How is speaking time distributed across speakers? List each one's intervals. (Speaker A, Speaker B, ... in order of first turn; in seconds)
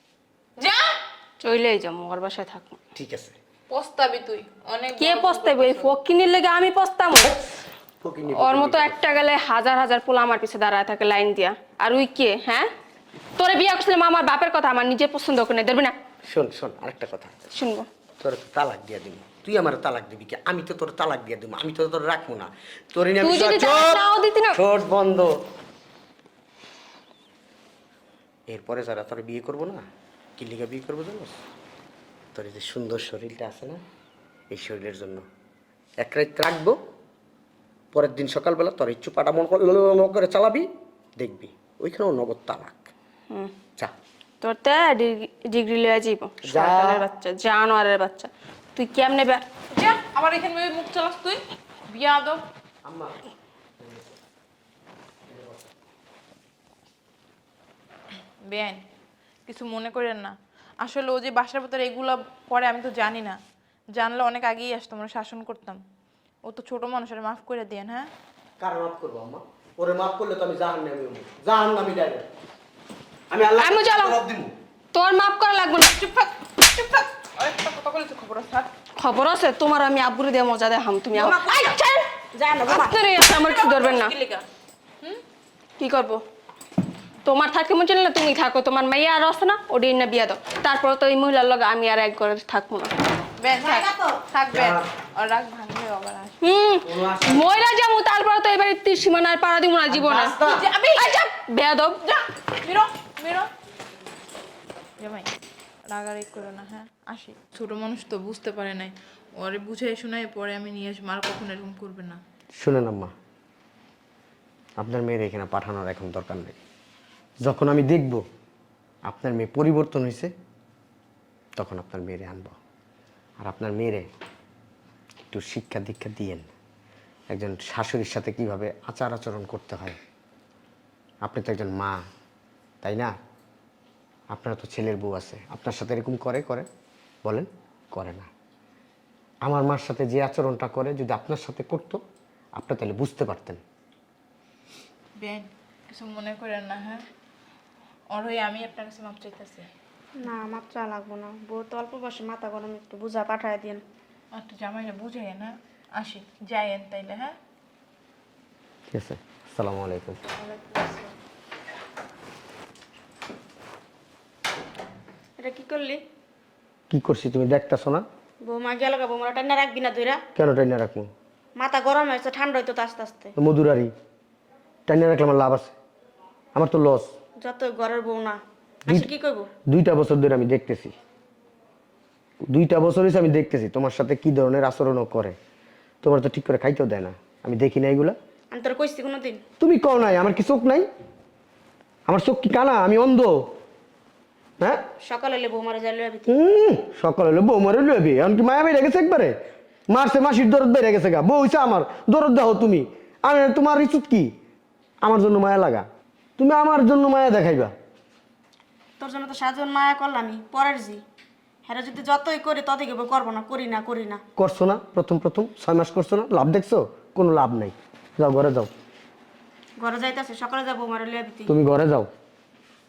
Speaker A: 0.6-1.0, 3.7-5.9, 49.7-52.4, 58.4-58.8, 59.5-63.4, 63.9-65.8, 66.4-68.1, 75.8-78.7, 83.2-84.5, 93.4-96.4, 100.2-101.2, 102.5-103.5, 105.0-105.3, 105.9-112.2, 145.2-147.1, 148.1-149.7, 154.3-157.3, 160.3-161.1
Speaker B: 1.4-2.8, 5.0-7.3, 8.3-12.7, 13.4-15.9, 17.5-17.9, 23.2-24.6, 44.4-49.4, 73.6-74.2, 74.9-75.9, 79.0-81.9, 82.6-84.1, 85.8-86.2, 87.2-93.0, 96.4-100.4, 100.9-102.2
Speaker C: 2.9-3.4, 8.0-8.9, 16.3-17.3, 18.2-24.0, 24.5-25.3, 28.5-29.8, 30.4-31.4, 32.3-33.8, 34.5-35.2, 36.0-36.8, 37.9-42.9, 46.4-47.0, 52.8-53.1, 53.8-54.1, 55.3-55.7, 68.6-72.2, 73.3-74.5, 94.5-94.9, 96.8-97.4, 99.9-100.7, 112.5-113.1, 114.8-116.6, 117.4-118.2, 119.0-120.3, 121.6-122.5, 123.4-124.1, 125.3-126.5, 127.3-130.0, 131.2-132.0, 132.8-133.1, 134.3-136.7, 137.2-138.3, 139.4-142.0, 142.6-143.6, 158.9-160.2, 166.9-168.0, 170.3-171.1, 173.3-173.9, 174.9-175.7, 176.5-177.1, 178.8-179.1, 179.7-180.9, 182.5-185.3, 186.0-188.2, 189.6-190.9, 192.1-193.5, 196.3-199.3, 199.9-204.3, 205.0-205.8, 206.4-207.7, 214.3-218.7, 221.5-222.1
Speaker D: 81.1-83.0, 93.6-94.2, 150.2-153.8, 165.4-166.0, 168.4-170.2, 171.6-173.3, 177.4-179.5, 188.5-189.4, 195.0-196.3, 209.0-211.0, 211.7-214.2, 219.8-221.5